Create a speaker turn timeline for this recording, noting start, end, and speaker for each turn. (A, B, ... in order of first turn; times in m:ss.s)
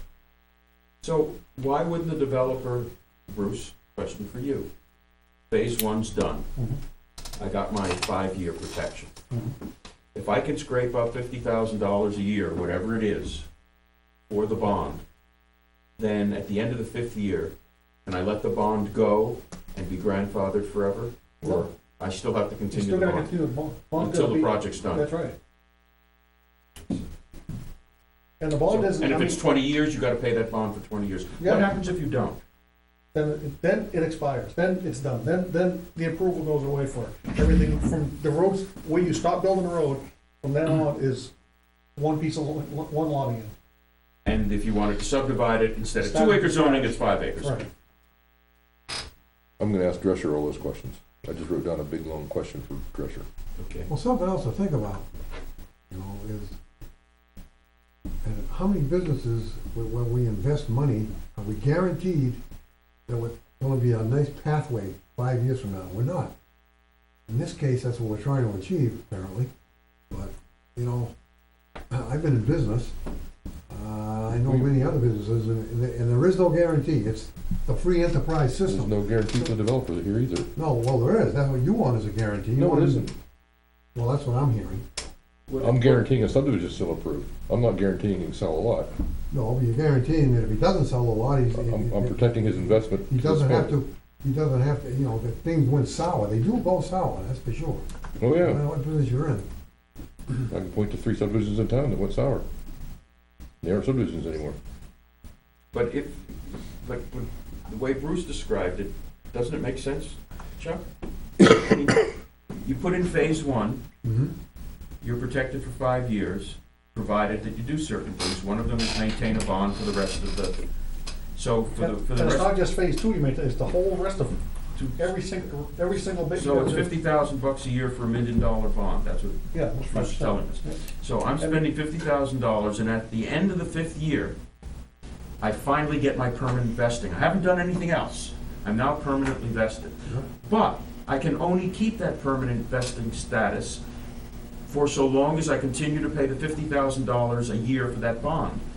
0:01.0-0:04.7 A
0:05.5-0:06.4 A
0:07.4-0:09.1 A
0:10.1-0:13.4 A
0:14.3-0:15.0 A
0:16.0-0:17.5 A
0:18.0-0:23.3 A
0:22.7-0:25.3 B
0:24.0-0:25.0 A
0:28.4-0:29.4 B
0:28.7-0:32.4 A
0:31.4-0:31.7 B
0:33.1-0:41.3 B
0:42.0-0:43.5 B
0:44.2-0:47.6 A
0:46.0-0:47.7 B
0:49.6-0:53.2 C
0:53.6-0:53.9 A
0:53.9-0:55.1 D
0:55.9-0:56.6 D
0:58.2-1:02.4 D
1:03.1-1:06.3 D
1:07.3-1:09.5 D
1:10.1-1:11.1 D
1:11.9-1:12.9 D
1:13.7-1:18.9 D
1:14.3-1:14.8 C
1:18.6-1:20.5 C
1:20.6-1:23.1 D
1:22.5-1:23.1 C
1:23.9-1:24.8 D
1:25.5-1:26.1 A
1:25.6-1:28.9 C
1:29.3-1:37.8 D
1:31.5-1:33.8 C
1:38.2-1:38.6 C
1:38.3-1:39.4 D
1:40.5-1:42.4 C
1:43.6-1:44.6 C
1:45.7-1:50.8 A
1:51.4-1:52.1 A
1:52.6-1:53.8 A
1:54.0-1:54.3 D
1:55.0-2:00.6 A
2:01.3-2:02.6 A
2:01.8-2:04.4 B
2:04.7-2:05.1 A
2:05.0-2:06.9 B
2:06.3-2:14.3 A
2:09.5-2:10.7 B
2:15.4-2:23.8 A
2:24.6-2:28.6 A